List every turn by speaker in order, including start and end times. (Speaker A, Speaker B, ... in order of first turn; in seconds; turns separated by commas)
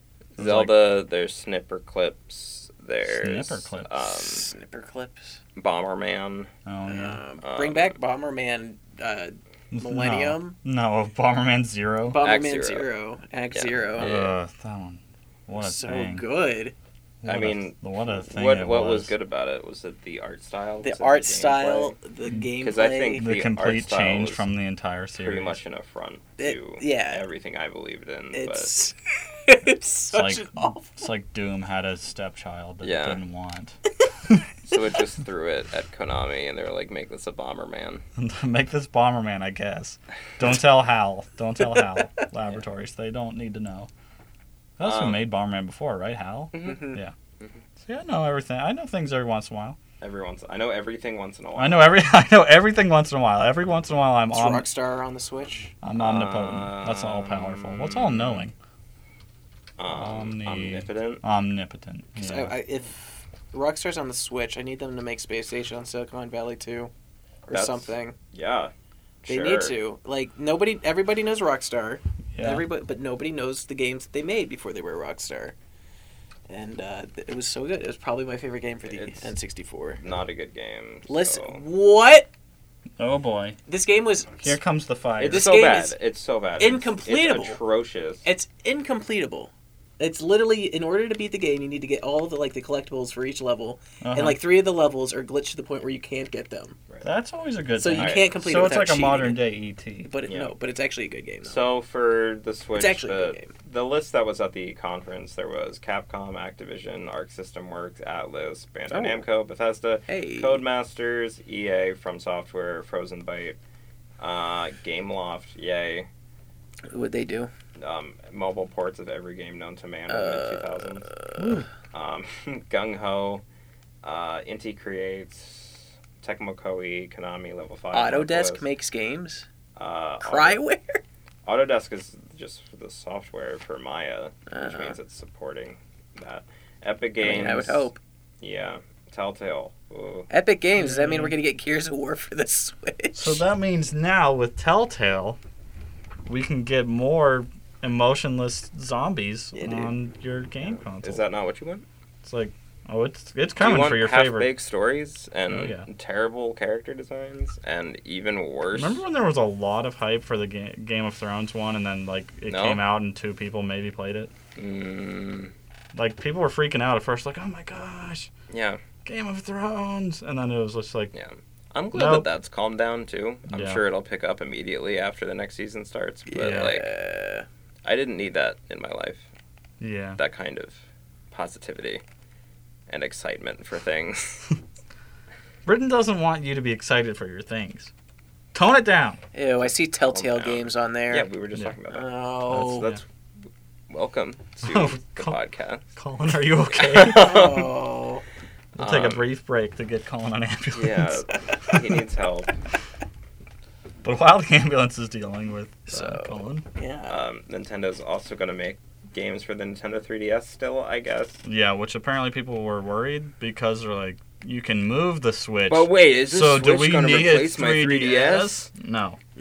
Speaker A: 0.4-0.8, Speaker B: 0.4-4.5, Speaker A: 3.1-3.9, Speaker C: 4.0-5.4, Speaker B: 5.5-6.5, Speaker A: 6.7-7.2, Speaker C: 6.8-10.6, Speaker B: 7.4-8.0, Speaker A: 9.7-12.2, Speaker C: 12.1-14.1, Speaker B: 12.2-12.9, Speaker B: 13.5-14.3, Speaker A: 14.0-16.2, Speaker C: 15.6-16.7, Speaker A: 17.2-19.1, Speaker B: 17.2-21.9, Speaker C: 20.8-23.2, Speaker B: 22.6-24.5, Speaker A: 23.2-25.6, Speaker B: 25.2-28.7, Speaker C: 26.4-27.2, Speaker C: 28.3-31.0, Speaker A: 30.1-33.8, Speaker B: 32.8-33.2, Speaker B: 34.6-38.0, Speaker A: 38.2-43.9, Speaker C: 41.7-41.9, Speaker A: 44.8-47.1, Speaker B: 44.8-45.2, Speaker B: 46.5-47.6, Speaker C: 46.6-47.0, Speaker A: 47.8-49.8, Speaker B: 50.0-52.0, Speaker A: 51.5-54.7, Speaker C: 54.3-55.7, Speaker A: 55.8-58.5, Speaker B: 56.0-58.5, Speaker B: 59.8-61.2, Speaker A: 59.9-62.5, Speaker C: 62.2-66.9, Speaker C: 67.5-68.2, Speaker B: 67.5-68.7, Speaker B: 69.2-69.8, Speaker C: 69.3-75.5, Speaker A: 72.3-72.7, Speaker C: 76.5-80.0, Speaker B: 78.9-79.3, Speaker B: 80.0-81.6, Speaker C: 81.1-82.3, Speaker A: 83.0-83.6, Speaker C: 83.7-84.5, Speaker A: 84.4-85.5, Speaker B: 85.2-88.2, Speaker C: 85.2-86.0, Speaker C: 86.6-87.6, Speaker C: 88.2-96.8, Speaker A: 94.0-94.4, Speaker A: 97.0-100.1, Speaker C: 97.8-99.4, Speaker B: 97.9-98.8, Speaker C: 100.0-101.6, Speaker B: 100.2-100.5, Speaker B: 101.4-113.6, Speaker C: 102.8-103.5, Speaker C: 108.9-109.2, Speaker C: 110.1-110.6, Speaker B: 114.2-116.1, Speaker C: 116.9-117.5, Speaker B: 117.8-121.1, Speaker C: 120.1-121.6, Speaker A: 121.4-121.6, Speaker B: 121.9-123.4, Speaker B: 124.0-128.6, Speaker C: 127.9-129.4, Speaker B: 129.8-130.6, Speaker C: 130.2-131.0, Speaker B: 131.4-137.9, Speaker C: 134.5-135.0, Speaker C: 137.2-138.0, Speaker B: 138.4-140.3, Speaker C: 140.3-143.4, Speaker A: 140.8-141.4, Speaker A: 143.1-145.4, Speaker A: 146.3-151.2, Speaker C: 149.5-149.9, Speaker B: 150.6-151.8, Speaker A: 152.2-154.5, Speaker B: 153.6-159.0, Speaker A: 155.5-155.9, Speaker A: 158.7-164.3, Speaker B: 162.5-162.8, Speaker B: 164.6-165.5, Speaker A: 165.9-168.3, Speaker B: 168.5-168.8, Speaker A: 169.0-171.1, Speaker B: 171.1-176.9, Speaker A: 171.9-172.2, Speaker A: 173.5-173.8, Speaker C: 176.3-177.4, Speaker A: 176.4-176.8, Speaker B: 177.8-179.3, Speaker A: 179.8-180.2, Speaker B: 180.2-182.0, Speaker B: 182.9-184.4, Speaker A: 185.7-187.9, Speaker A: 188.5-189.2, Speaker C: 189.3-191.3, Speaker B: 190.1-192.1, Speaker C: 191.9-192.9, Speaker A: 192.5-193.0, Speaker B: 193.9-195.8, Speaker A: 194.6-195.4, Speaker A: 195.9-197.3, Speaker B: 196.7-197.7, Speaker C: 197.1-198.2, Speaker A: 198.8-201.8, Speaker B: 198.8-199.2, Speaker B: 200.7-202.5, Speaker A: 204.0-206.7, Speaker C: 205.9-207.2, Speaker B: 207.1-211.4, Speaker A: 211.4-219.2, Speaker B: 215.7-218.7